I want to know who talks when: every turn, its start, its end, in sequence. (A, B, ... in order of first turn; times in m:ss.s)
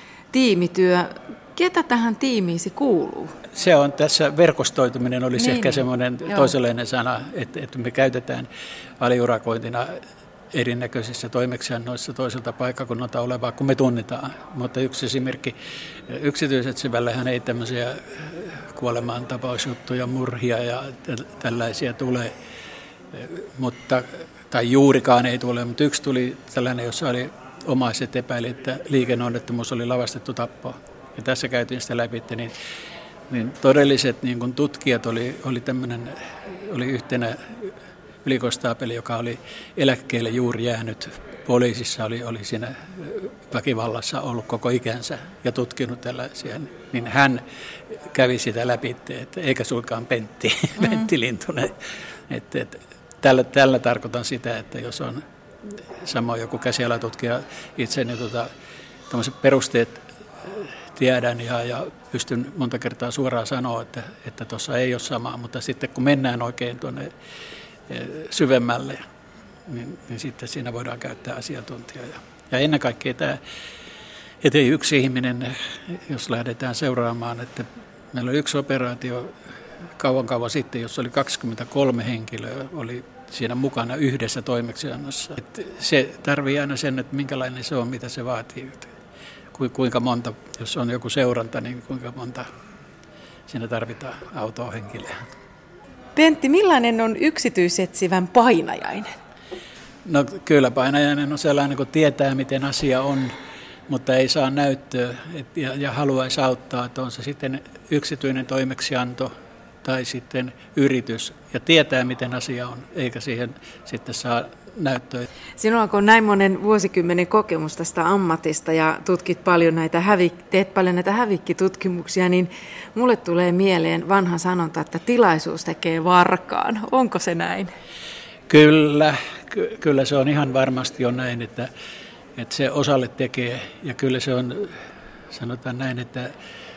0:00.3-0:03.3 A
0:03.5-0:08.5 B
0:05.4-0:05.8 A
0:09.0-0:10.0 B
0:10.5-0:15.5 B
0:16.1-0:22.3 B
0:23.1-0:32.5 B
0:33.3-0:37.6 B
0:38.2-0:47.4 B
0:48.1-0:51.8 B
0:52.3-0:55.2 B
0:56.0-0:58.5 B
0:59.1-1:07.1 B
1:07.9-1:09.0 B
1:09.7-1:13.4 B
1:14.4-1:19.3 B
1:20.0-1:28.9 B
1:29.5-1:32.5 B
1:33.5-1:35.1 B
1:36.1-1:39.1 A
1:40.0-1:43.3 B
1:43.9-1:49.3 B
1:49.8-1:55.3 B
1:55.6-2:07.7 A
2:08.5-2:11.7 B
2:12.4-2:14.7 B
2:15.3-2:16.3 B